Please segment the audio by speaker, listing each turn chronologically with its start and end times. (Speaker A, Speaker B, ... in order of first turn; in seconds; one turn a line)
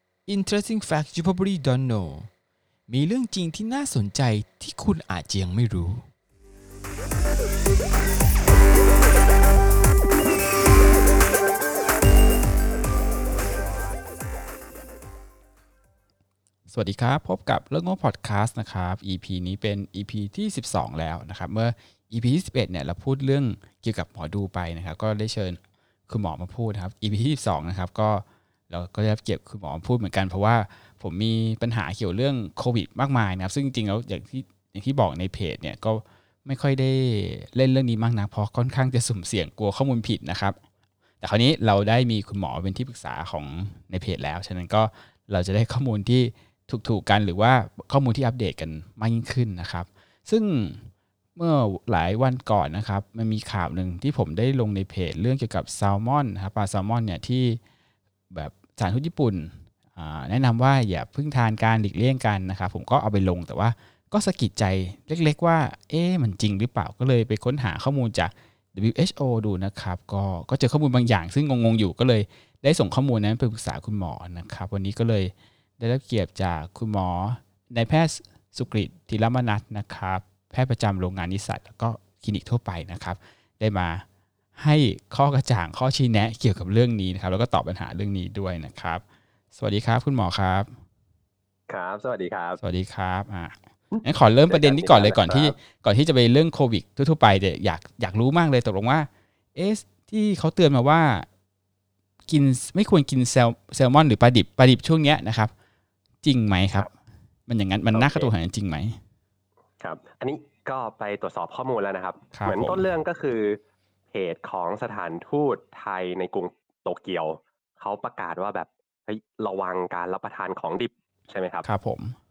Speaker A: 0.3-2.3
Speaker A: 2.9-6.0
Speaker A: 16.7-40.6
Speaker A: 41.2-57.6
Speaker A: 58.3-84.0
Speaker A: 84.5-89.0
Speaker A: 89.5-90.7
Speaker B: 91.7-92.6
Speaker A: 92.6-101.3
Speaker B: 93.9-95.5
Speaker A: 102.3-105.5
Speaker A: 106.2-106.9
Speaker A: 107.5-109.0
Speaker B: 107.9-108.3
Speaker B: 109.8-113.6
Speaker A: 112.3-112.8
Speaker B: 114.1-121.7
Speaker A: 121.6-122.2